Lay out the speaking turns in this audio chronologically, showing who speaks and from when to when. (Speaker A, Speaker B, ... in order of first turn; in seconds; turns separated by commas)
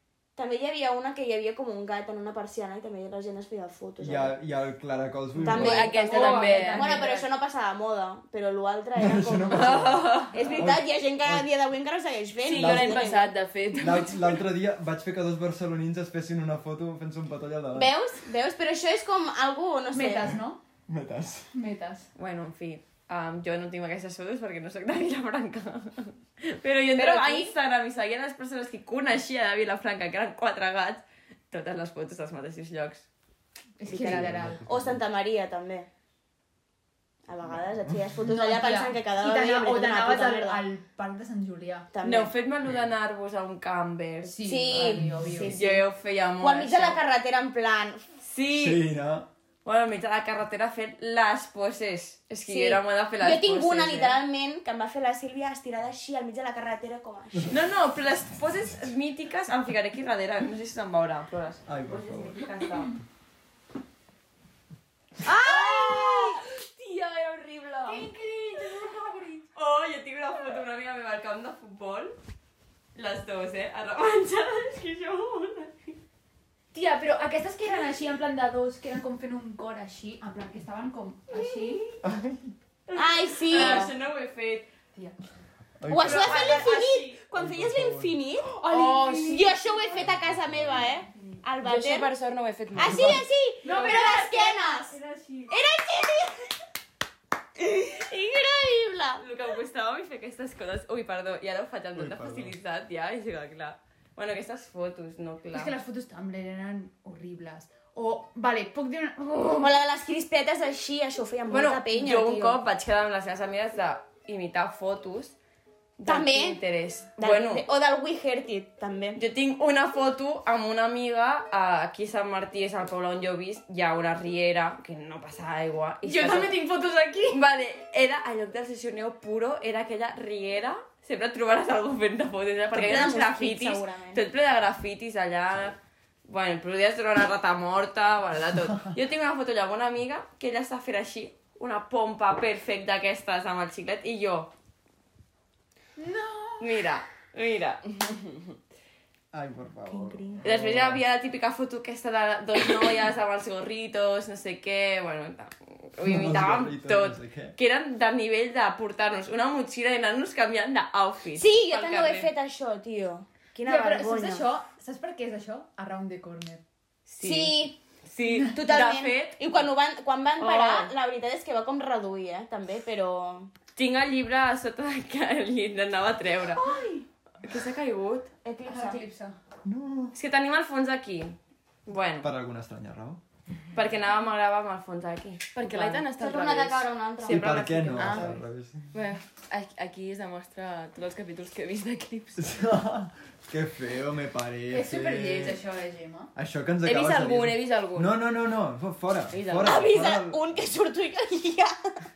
Speaker A: 0.3-4.3, Speaker B: 4.0-5.9, Speaker A: 5.4-13.3, Speaker C: 5.5-7.0, Speaker D: 5.5-7.3, Speaker B: 8.9-11.5, Speaker E: 9.5-10.6, Speaker C: 12.4-14.4, Speaker B: 12.5-13.1, Speaker B: 13.7-17.9, Speaker A: 17.7-20.3, Speaker D: 19.9-20.6, Speaker B: 20.9-21.5, Speaker D: 21.5-22.1, Speaker E: 22.1-33.0, Speaker A: 26.9-27.5, Speaker D: 33.8-34.6, Speaker A: 33.9-35.9, Speaker B: 33.9-35.0, Speaker A: 37.3-40.6, Speaker B: 37.5-38.0, Speaker D: 38.2-41.9, Speaker A: 41.9-42.3, Speaker E: 42.0-47.0, Speaker D: 44.2-45.5, Speaker A: 44.4-45.8, Speaker B: 45.1-45.4, Speaker A: 46.4-48.1, Speaker E: 48.2-48.8, Speaker B: 48.5-49.3, Speaker E: 49.6-54.2, Speaker A: 52.5-57.6, Speaker E: 57.5-63.0, Speaker B: 61.7-62.4, Speaker A: 65.2-66.4, Speaker C: 65.2-68.1, Speaker D: 67.8-69.4, Speaker E: 68.5-68.9, Speaker E: 69.5-72.1, Speaker E: 72.9-76.0, Speaker D: 76.7-81.8, Speaker E: 81.3-82.0, Speaker B: 82.0-82.4, Speaker E: 82.9-84.7, Speaker A: 83.0-83.9, Speaker C: 83.5-83.9, Speaker B: 85.8-86.5, Speaker A: 85.9-88.6, Speaker E: 86.0-87.2, Speaker B: 87.3-88.2, Speaker D: 88.6-90.0, Speaker C: 88.6-89.5, Speaker A: 89.2-92.2, Speaker B: 89.9-90.9, Speaker C: 91.6-93.2, Speaker A: 92.7-95.0, Speaker B: 92.8-93.2, Speaker D: 93.6-95.6, Speaker A: 95.5-96.5, Speaker A: 97.6-99.2, Speaker E: 99.2-105.7, Speaker B: 101.9-102.6, Speaker D: 105.5-109.7, Speaker A: 109.6-112.6, Speaker E: 111.5-115.3, Speaker E: 116.0-117.6, Speaker A: 116.0-116.6, Speaker A: 117.2-119.2, Speaker E: 119.1-126.6, Speaker C: 126.0-127.3, Speaker D: 126.5-127.2, Speaker E: 127.3-144.5, Speaker A: 132.7-134.2, Speaker D: 146.0-146.7, Speaker E: 146.6-147.8, Speaker B: 149.3-151.0, Speaker A: 149.8-150.4, Speaker E: 150.4-162.3, Speaker B: 156.0-157.6, Speaker A: 161.3-164.5, Speaker D: 163.6-166.6, Speaker E: 167.1-169.7, Speaker A: 167.2-167.8, Speaker A: 168.4-173.5, Speaker E: 170.4-170.9, Speaker E: 173.8-176.7, Speaker D: 176.5-177.1, Speaker E: 177.4-178.3, Speaker A: 178.4-179.0, Speaker D: 178.6-179.4, Speaker B: 179.6-180.1, Speaker E: 180.1-182.3, Speaker B: 182.2-183.2, Speaker E: 183.7-185.8, Speaker C: 185.5-188.4, Speaker A: 186.1-188.3, Speaker B: 187.2-188.9, Speaker C: 188.9-192.6, Speaker B: 192.4-195.6, Speaker D: 194.7-196.3, Speaker B: 196.3-200.4, Speaker C: 196.8-198.2, Speaker C: 199.3-199.9, Speaker A: 199.6-201.9